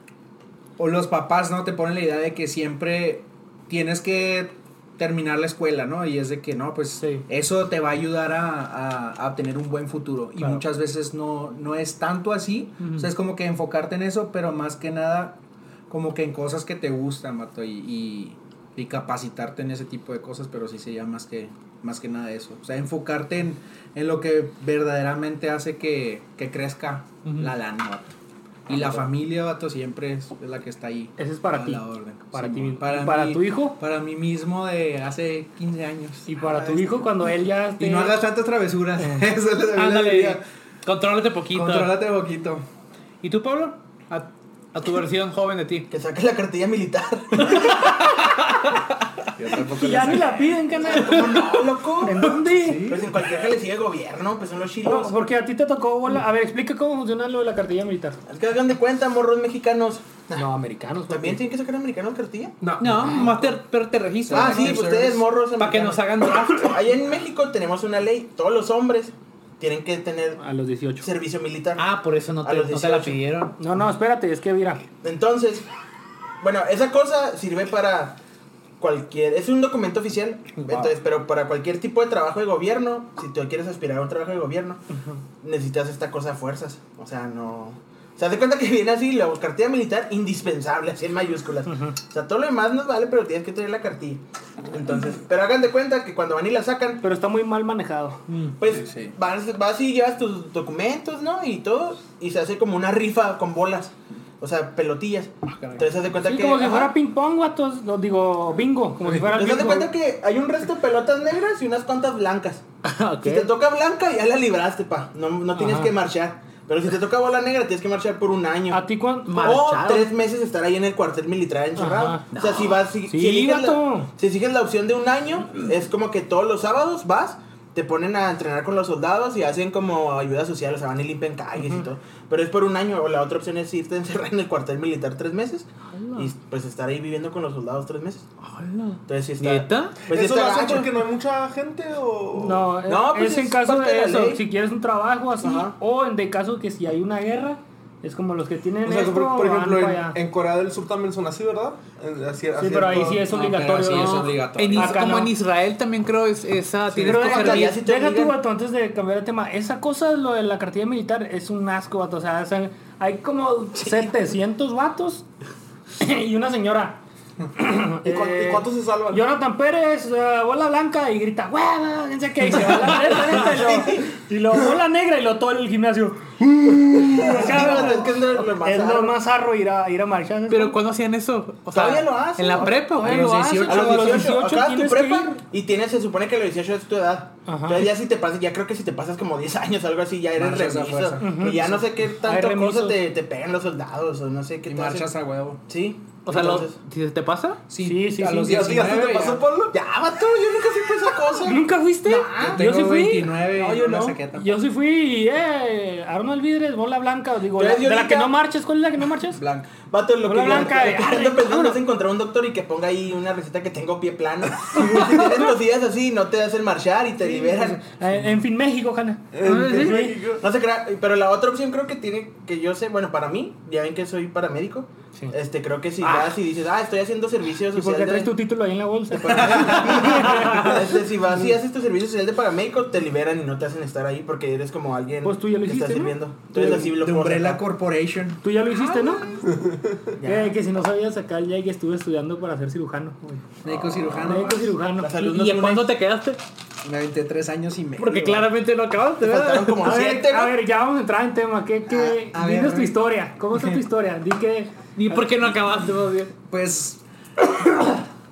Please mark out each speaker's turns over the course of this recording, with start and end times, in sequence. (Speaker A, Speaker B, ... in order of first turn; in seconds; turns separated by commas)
Speaker A: 0.8-15.4, Speaker B: 12.8-13.1, Speaker A: 15.9-28.1, Speaker B: 27.2-27.5, Speaker A: 28.7-36.4, Speaker C: 31.2-33.8, Speaker C: 36.3-38.2, Speaker A: 37.8-40.4, Speaker B: 39.8-41.9, Speaker A: 41.5-42.6, Speaker B: 43.2-45.9, Speaker D: 45.9-48.1, Speaker A: 49.4-50.5, Speaker C: 49.7-51.5, Speaker D: 50.8-55.2, Speaker C: 52.0-53.0, Speaker A: 52.5-53.1, Speaker C: 54.8-58.2, Speaker D: 58.3-60.4, Speaker C: 60.4-61.4, Speaker D: 61.1-62.6, Speaker C: 62.6-63.4, Speaker B: 62.8-66.8, Speaker A: 64.3-65.2, Speaker D: 64.3-70.4, Speaker C: 70.4-71.1, Speaker D: 71.0-71.9, Speaker B: 71.8-73.5, Speaker D: 72.4-73.2, Speaker C: 73.6-74.8, Speaker D: 75.0-75.7, Speaker D: 76.4-78.2, Speaker D: 78.8-84.8, Speaker B: 80.6-80.9, Speaker C: 84.9-85.2, Speaker D: 85.4-97.0, Speaker C: 97.0-98.2, Speaker B: 98.3-98.6, Speaker D: 98.6-106.9, Speaker A: 98.7-99.2, Speaker A: 105.5-105.9, Speaker C: 106.2-109.9, Speaker D: 109.3-112.6, Speaker C: 112.8-113.5, Speaker D: 113.2-118.8, Speaker C: 115.6-115.9, Speaker C: 118.7-119.6, Speaker B: 119.3-120.1, Speaker D: 119.4-138.3, Speaker C: 121.8-122.3, Speaker B: 122.3-122.8, Speaker C: 123.1-124.1, Speaker C: 135.9-136.3, Speaker B: 138.4-140.0, Speaker D: 139.1-140.9, Speaker E: 140.1-142.7, Speaker C: 142.4-150.2, Speaker D: 142.8-144.4, Speaker D: 145.4-145.8, Speaker E: 148.8-153.3, Speaker C: 152.6-155.3, Speaker A: 153.3-155.1, Speaker B: 153.9-157.8, Speaker A: 156.9-157.2, Speaker D: 157.0-158.4, Speaker C: 157.0-165.2, Speaker C: 166.0-167.0, Speaker C: 167.6-176.4, Speaker E: 168.0-169.3, Speaker B: 172.6-173.2, Speaker D: 173.3-174.1, Speaker E: 176.4-177.8, Speaker C: 177.0-180.8, Speaker D: 177.1-179.2, Speaker B: 180.5-183.8, Speaker D: 181.7-195.1, Speaker A: 182.9-184.4, Speaker C: 183.6-185.4, Speaker C: 187.5-187.9, Speaker A: 190.3-191.8, Speaker C: 191.2-193.0, Speaker A: 194.7-195.6, Speaker D: 195.7-196.8, Speaker B: 196.3-197.6, Speaker A: 197.7-199.5, Speaker C: 197.8-198.8, Speaker E: 198.4-199.8, Speaker D: 199.7-202.7, Speaker C: 201.4-203.4, Speaker A: 202.4-204.6, Speaker D: 203.5-204.2, Speaker C: 204.3-209.4, Speaker D: 207.6-208.4, Speaker A: 209.3-209.8, Speaker D: 209.8-217.9, Speaker C: 210.2-211.8, Speaker C: 217.2-220.2, Speaker E: 219.3-220.4, Speaker B: 219.4-220.0, Speaker D: 220.4-228.3, Speaker B: 226.0-226.3, Speaker C: 227.7-230.8, Speaker D: 229.1-237.6, Speaker A: 229.6-229.9, Speaker C: 235.2-236.8, Speaker A: 236.6-239.5, Speaker C: 238.4-239.5, Speaker E: 239.5-239.8, Speaker D: 240.1-240.6, Speaker C: 240.2-243.5, Speaker A: 243.6-244.8, Speaker C: 244.1-245.1, Speaker D: 245.0-245.9, Speaker B: 245.1-246.4, Speaker A: 246.8-248.5, Speaker B: 248.0-249.8, Speaker D: 249.2-250.6, Speaker C: 249.8-254.8, Speaker A: 252.1-253.0, Speaker A: 253.5-253.8, Speaker B: 254.9-256.3, Speaker A: 256.5-257.0